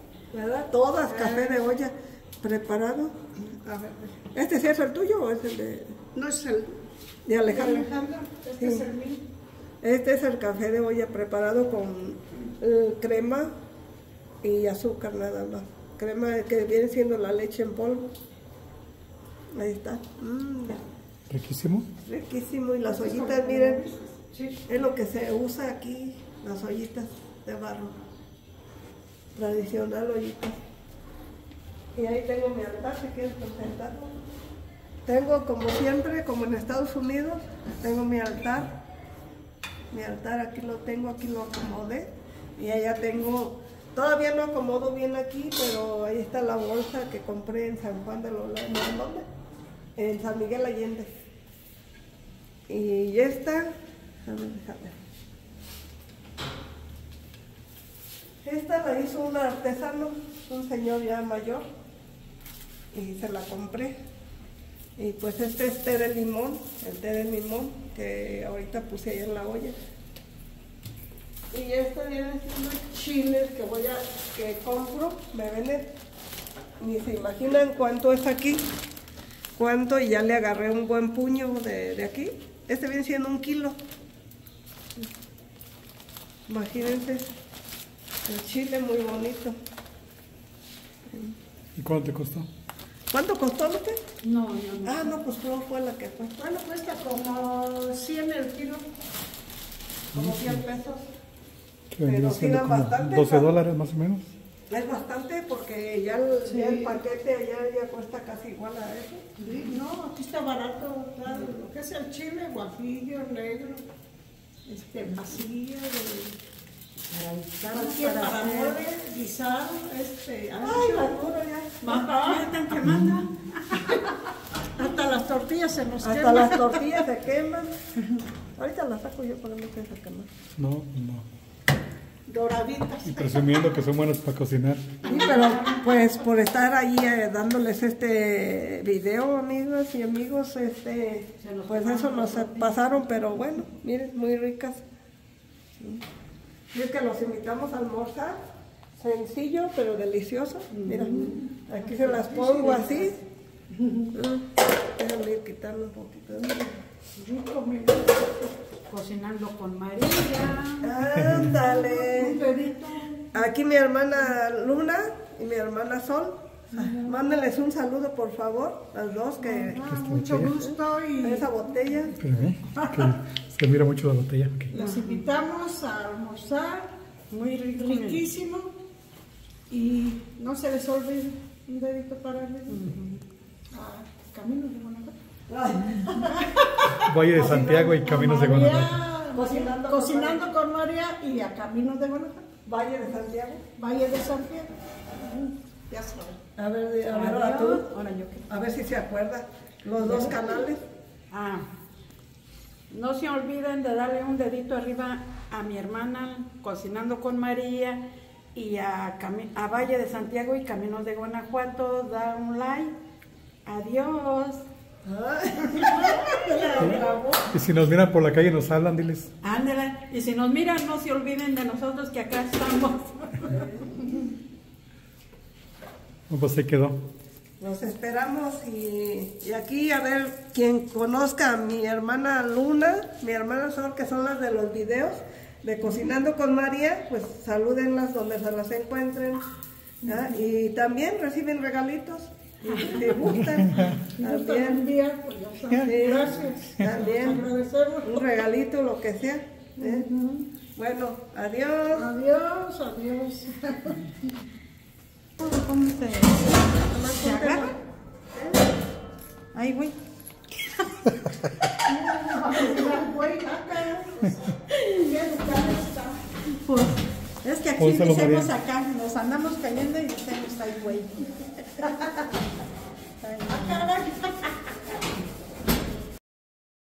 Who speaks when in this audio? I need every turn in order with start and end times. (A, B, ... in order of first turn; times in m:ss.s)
0:00.3-0:03.1 A
0:01.0-0:01.7 B
0:03.4-0:04.2 B
0:04.3-0:06.0 A
0:06.1-0:06.8 B
0:07.2-0:07.9 A
0:07.4-0:09.2 B
0:08.6-0:08.9 A
0:09.8-0:13.5 A
0:14.4-0:18.1 A
0:19.5-0:20.8 A
0:21.3-0:21.9 C
0:22.0-0:23.8 A
0:22.8-0:24.8 B
0:24.7-0:27.9 A
0:29.3-0:30.6 A
0:31.9-0:34.1 A
0:35.0-0:38.7 A
0:39.9-0:49.2 A
0:50.0-0:51.1 A
0:52.7-0:53.7 A
0:54.2-0:54.9 A
0:58.4-1:01.7 A
1:02.9-1:03.9 A
1:05.0-1:09.8 A
1:11.5-1:15.9 A
1:16.8-1:18.6 A
1:19.6-1:23.8 A
1:26.5-1:27.3 A
1:28.3-1:29.5 A
1:31.1-1:31.3 A
1:31.8-1:32.5 C
1:33.1-1:34.0 A
1:34.2-1:35.1 D
1:34.8-1:36.4 A
1:36.4-1:38.9 B
1:40.1-1:40.6 C
1:40.1-1:41.1 A
1:41.9-1:44.3 C
1:42.0-1:43.5 A
1:44.7-1:49.3 A
1:46.4-1:47.0 B
1:49.4-1:53.8 B
1:54.7-1:56.4 B
1:57.1-1:58.8 D
1:57.7-2:01.2 B
2:00.6-2:01.8 A
2:01.8-2:04.0 D
2:01.9-2:02.5 B
2:04.8-2:07.0 B
2:06.0-2:07.7 A
2:08.6-2:10.3 A
2:10.6-2:11.2 C
2:12.3-2:13.5 B
2:13.0-2:14.9 C
2:15.0-2:24.8 A
2:15.1-2:15.4 B
2:21.4-2:23.0 D
2:26.7-2:28.4 A
2:29.0-2:33.2 A
2:30.7-2:33.1 B
2:33.7-2:34.1 B
2:34.1-2:34.4 A
2:35.0-2:36.8 A
2:37.2-2:38.5 B
2:38.9-2:40.9 D
2:40.8-2:42.4 A
2:41.2-2:41.6 C
2:41.6-2:43.3 B
2:43.3-2:49.8 A
2:46.7-2:47.2 B
2:49.4-2:51.5 B
2:49.8-2:50.6 C
2:50.7-2:52.1 A
2:52.2-2:54.7 C
2:52.7-2:53.2 B
2:54.7-2:56.9 B
2:54.8-2:55.3 D
2:57.3-2:58.3 D
2:57.8-2:58.7 B
2:59.7-3:02.8 B
3:02.7-3:03.2 D
3:03.7-3:05.1 B
3:05.5-3:06.2 A
3:06.0-3:12.4 B
3:07.0-3:09.0 C
3:07.3-3:07.9 A
3:09.3-3:10.4 A
3:12.6-3:13.6 A
3:13.8-3:16.4 B
3:16.6-3:17.8 A
3:17.1-3:18.5 D
3:18.5-3:20.8 A
3:20.0-3:20.5 B
3:21.3-3:21.7 D
3:22.9-3:28.0 D
3:28.5-3:32.9 D
3:33.6-3:34.6 D
3:35.0-3:37.3 A
3:35.7-3:37.4 B
3:37.5-3:39.3 C
3:39.4-3:43.6 D
3:46.3-3:47.0 C
3:47.6-3:59.4 A
4:00.0-4:04.9 A
4:02.6-4:03.1 D
4:04.0-4:08.3 B
4:05.8-4:07.5 A
4:08.0-4:10.1 A
4:09.8-4:10.5 B
4:10.7-4:12.1 A
4:11.9-4:14.3 B
4:15.4-4:17.7 D
4:16.9-4:17.7 A
4:18.3-4:18.6 A
4:19.5-4:20.0 D
4:21.9-4:24.3 B
4:24.7-4:25.1 D
4:25.0-4:26.2 B
4:26.5-4:31.9 D
4:27.8-4:28.5 C
4:33.2-4:33.8 D
4:33.5-4:34.6 B